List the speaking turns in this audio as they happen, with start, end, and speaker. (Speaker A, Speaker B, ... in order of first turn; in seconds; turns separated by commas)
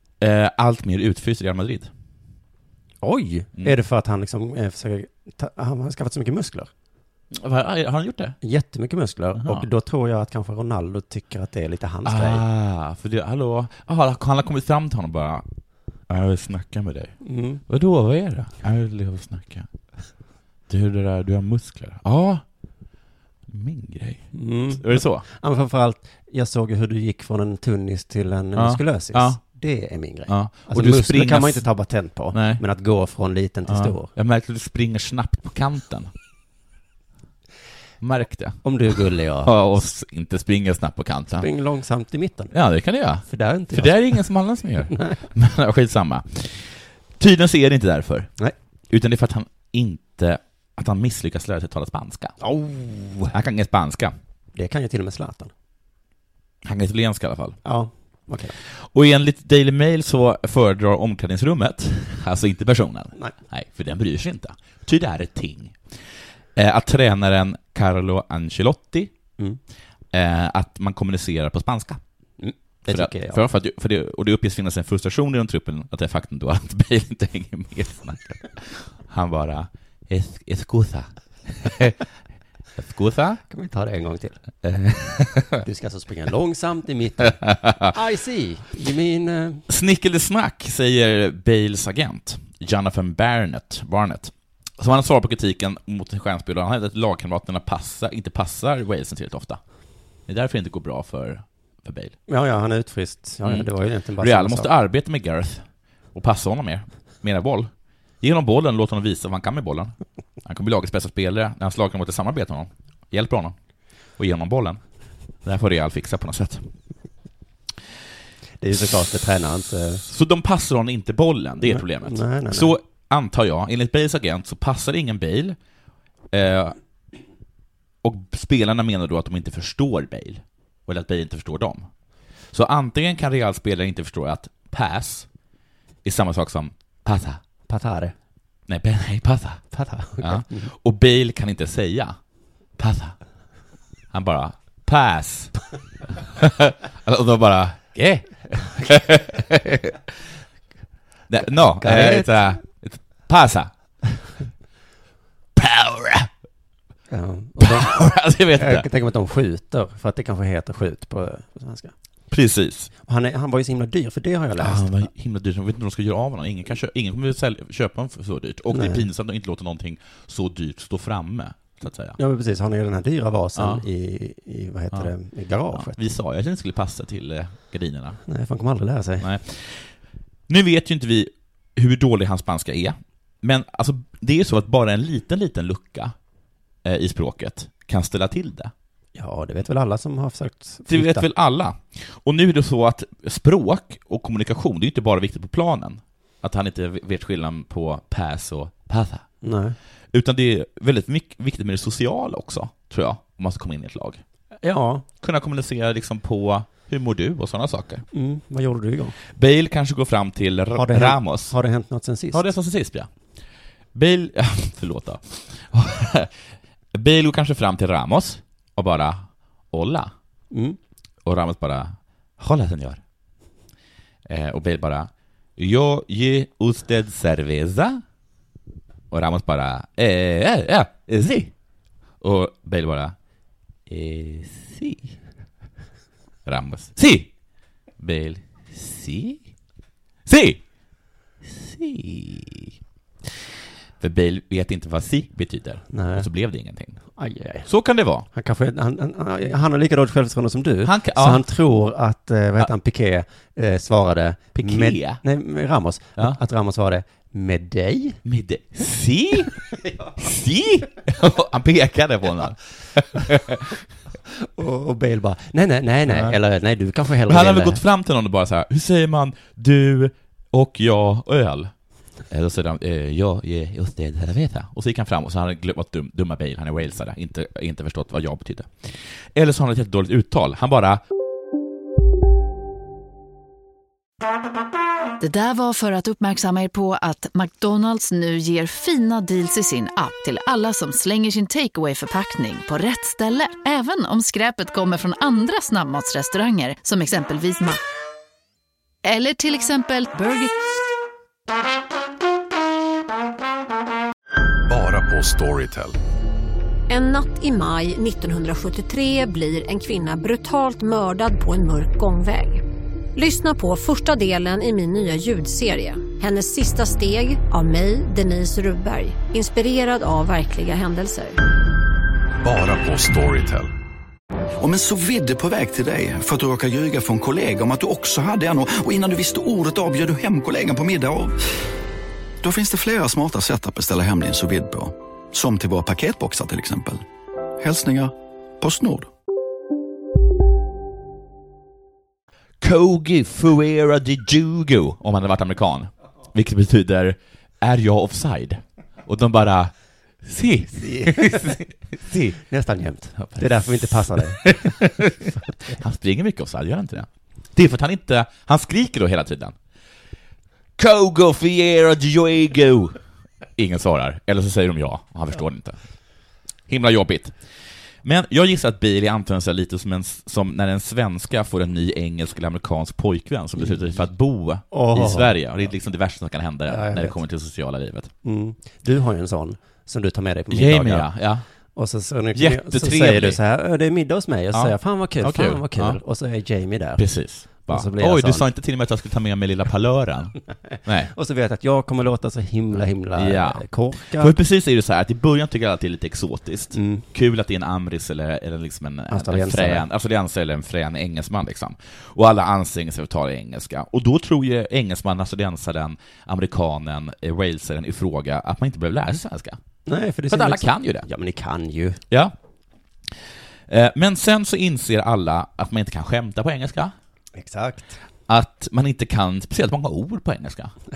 Speaker A: 0.2-1.9, Speaker B: 3.0-6.7, Speaker A: 7.3-8.3, Speaker B: 8.4-12.4, Speaker A: 9.4-9.7, Speaker A: 12.0-15.4, Speaker A: 16.1-17.1, Speaker B: 17.2-17.6, Speaker A: 17.7-19.7, Speaker A: 20.7-22.4, Speaker A: 23.5-25.2, Speaker B: 24.3-34.1, Speaker A: 28.6-29.4, Speaker A: 30.3-31.6, Speaker A: 32.3-32.6, Speaker A: 33.7-36.1, Speaker A: 38.0-38.6, Speaker B: 38.6-39.5, Speaker A: 39.4-41.5, Speaker B: 41.4-42.5, Speaker A: 42.5-48.3, Speaker B: 43.3-44.2, Speaker B: 44.9-45.2, Speaker A: 48.9-52.4, Speaker B: 52.4-53.3, Speaker A: 53.3-54.1, Speaker B: 54.5-55.5, Speaker A: 56.6-57.6, Speaker B: 57.6-58.5, Speaker A: 58.6-65.8, Speaker A: 66.5-69.1, Speaker A: 70.1-72.0, Speaker B: 72.4-73.4, Speaker A: 72.9-82.0, Speaker A: 82.8-83.4, Speaker B: 83.5-84.4, Speaker A: 84.6-85.6, Speaker B: 85.6-89.6, Speaker A: 87.4-87.8, Speaker A: 89.7-99.6, Speaker A: 100.3-102.2, Speaker B: 102.3-104.7, Speaker A: 104.2-107.7, Speaker A: 108.2-113.5, Speaker A: 114.2-114.8, Speaker A: 115.4-116.7, Speaker B: 118.6-120.0, Speaker A: 120.0-125.6, Speaker B: 121.6-122.7, Speaker A: 126.3-126.8, Speaker A: 128.0-131.9, Speaker A: 132.5-135.3, Speaker A: 136.0-137.4, Speaker B: 137.7-138.1, Speaker A: 138.7-139.6, Speaker B: 139.7-140.7, Speaker A: 140.2-142.2, Speaker A: 142.8-143.2, Speaker A: 144.1-145.5, Speaker A: 146.3-150.0, Speaker A: 151.3-153.7, Speaker B: 151.8-152.4, Speaker A: 155.6-156.3, Speaker B: 157.1-161.9, Speaker A: 157.6-158.9, Speaker A: 162.3-162.9, Speaker B: 163.1-165.0, Speaker A: 164.6-172.2, Speaker B: 168.7-169.0, Speaker B: 172.2-175.9, Speaker A: 173.6-173.8, Speaker A: 175.7-178.2, Speaker B: 178.2-179.2, Speaker A: 179.2-179.9, Speaker A: 180.5-186.1, Speaker A: 186.8-188.7, Speaker B: 189.1-191.2, Speaker A: 190.9-199.2, Speaker B: 199.4-199.8, Speaker A: 200.1-204.2, Speaker B: 204.6-205.0, Speaker A: 205.2-208.0, Speaker B: 208.1-209.2, Speaker A: 209.3-211.5, Speaker B: 210.7-212.4, Speaker A: 212.3-213.1, Speaker A: 213.9-216.3, Speaker A: 216.9-220.1, Speaker B: 220.5-220.8, Speaker A: 221.2-223.0, Speaker A: 224.2-228.0, Speaker A: 229.1-231.5, Speaker A: 232.2-233.1, Speaker A: 233.9-235.2, Speaker A: 236.4-237.3, Speaker A: 238.0-239.4, Speaker A: 240.2-240.6, Speaker A: 241.4-247.0, Speaker B: 245.9-246.3, Speaker B: 247.2-247.7, Speaker A: 247.6-248.3, Speaker B: 248.3-258.2, Speaker A: 250.8-251.4, Speaker A: 254.5-255.2, Speaker A: 258.2-263.8, Speaker B: 264.6-267.8, Speaker A: 266.1-266.4, Speaker A: 267.2-271.7, Speaker A: 272.3-281.0, Speaker C: 285.2-297.8, Speaker C: 299.0-300.5, Speaker D: 304.7-306.0, Speaker E: 306.9-312.6, Speaker E: 313.1-321.4, Speaker D: 322.4-323.7, Speaker F: 324.6-331.4, Speaker F: 332.4-337.0, Speaker F: 337.6-339.1, Speaker A: 342.6-352.4, Speaker B: 350.8-351.6, Speaker B: 352.4-354.8, Speaker A: 353.2-359.5, Speaker A: 360.8-363.0, Speaker A: 363.6-365.8, Speaker A: 366.7-367.3, Speaker A: 368.0-378.1, Speaker B: 374.7-375.3, Speaker B: 376.7-377.2, Speaker B: 378.2-381.1, Speaker A: 380.5-381.4, Speaker B: 381.7-387.0, Speaker A: 382.3-383.4, Speaker A: 384.5-386.0, Speaker A: 387.0-391.1, Speaker B: 387.6-388.5, Speaker B: 391.1-394.3, Speaker A: 393.1-409.6, Speaker B: 396.7-397.0, Speaker B: 399.1-399.9, Speaker B: 409.9-412.0, Speaker A: 410.3-411.1, Speaker A: 413.7-416.9, Speaker B: 417.4-418.0, Speaker A: 418.3-420.7